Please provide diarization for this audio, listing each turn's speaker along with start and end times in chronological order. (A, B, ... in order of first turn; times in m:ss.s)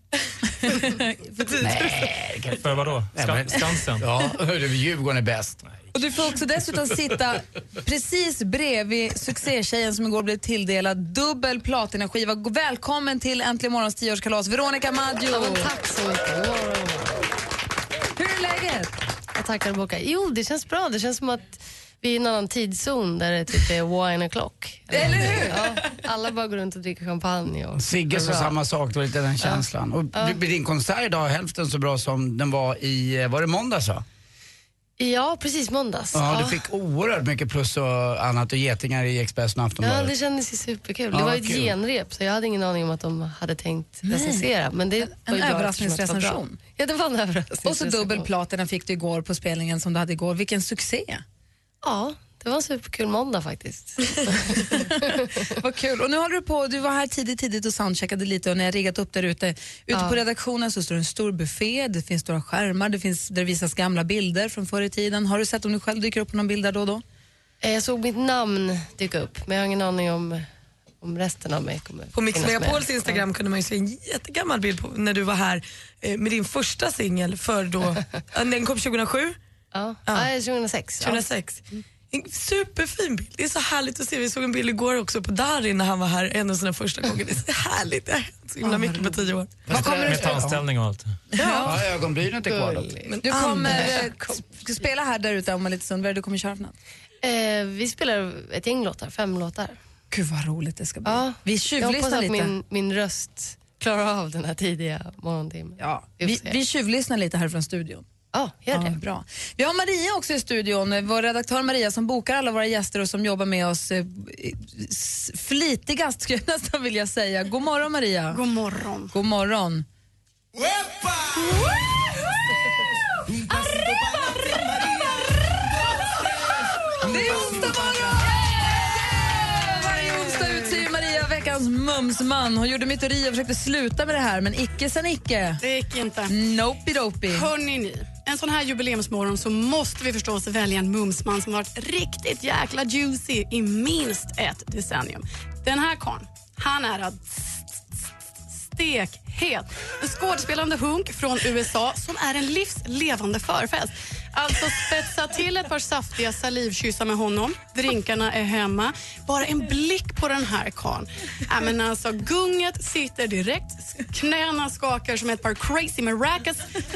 0:00.6-0:01.8 A
0:01.4-0:02.0 B
0:01.6-0:05.6 C
0:02.6-0:04.1 D
0:05.9-0:15.7 A
0:15.3-0:17.2 E
0:18.2-0:18.9 A
0:19.3-0:28.6 E
0:24.9-0:25.7 A
0:27.8-0:34.0 C
0:35.0-0:36.6 E
0:36.1-0:40.1 C
0:39.8-0:48.3 E
0:41.1-0:41.7 C
0:44.0-0:44.5 A
0:45.0-0:46.6 A
0:47.6-0:51.2 A
0:51.8-0:55.5 E
0:55.6-1:07.0 A
0:59.9-1:00.2 E
1:07.6-1:10.4 E
1:11.0-1:13.2 E
1:12.1-1:19.4 B
1:17.9-1:18.2 E
1:19.7-1:21.3 E
1:21.0-1:29.6 B
1:29.7-1:30.6 C
1:29.7-1:31.2 D
1:31.3-1:31.7 B
1:31.3-1:31.7 A
1:31.6-1:33.0 C
1:32.5-1:33.0 E
1:33.0-1:34.0 B
1:33.2-1:36.7 A
1:33.7-1:34.4 E
1:37.2-1:39.8 E
1:40.1-1:42.5 A
1:41.0-1:46.6 E
1:45.8-1:48.0 A
1:48.3-1:49.0 E
1:48.7-1:58.4 A
1:58.3-1:59.1 F
1:59.1-1:59.8 A
2:07.0-2:15.6 A
2:15.6-2:16.3 F
2:16.3-2:17.5 A
2:17.3-2:27.6 F
2:28.6-2:46.6 F